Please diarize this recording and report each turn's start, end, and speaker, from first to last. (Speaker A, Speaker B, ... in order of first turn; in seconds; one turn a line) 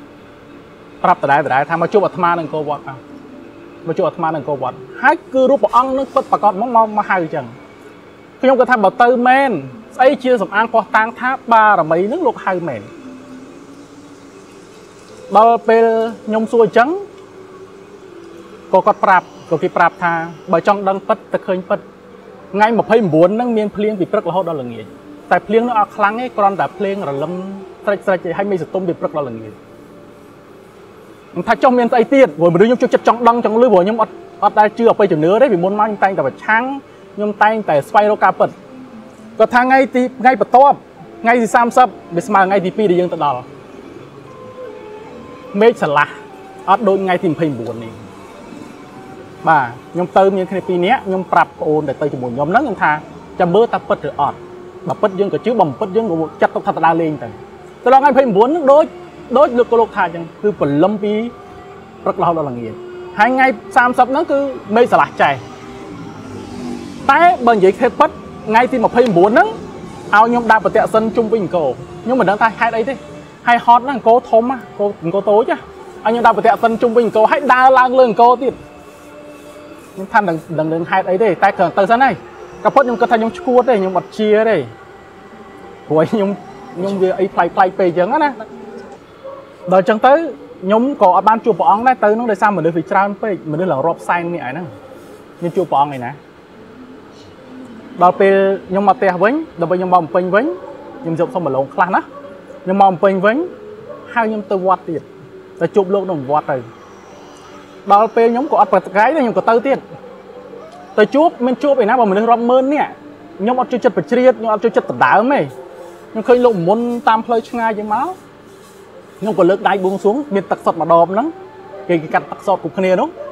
Speaker A: 1.0-3.0
Speaker A: 3.9-7.5
Speaker A: 8.4-12.9
Speaker A: 15.3-17.1
Speaker A: 18.7-21.8
Speaker A: 22.5-29.6
Speaker A: 31.4-38.5
Speaker A: 39.4-43.5
Speaker A: 45.5-46.1
Speaker A: 46.7-48.0
Speaker A: 49.4-61.3
Speaker A: 62.0-65.4
Speaker A: 67.0-69.6
Speaker A: 70.1-78.6
Speaker A: 80.0-84.7
Speaker A: 85.9-88.4
Speaker A: 89.7-94.7
Speaker A: 95.4-96.2
Speaker A: 98.0-102.0
Speaker A: 102.7-103.5
Speaker A: 104.1-105.1
Speaker A: 105.6-106.7
Speaker A: 107.9-109.8
Speaker A: 111.0-115.5
Speaker A: 116.1-118.2
Speaker A: 119.2-121.3
Speaker A: 121.9-123.1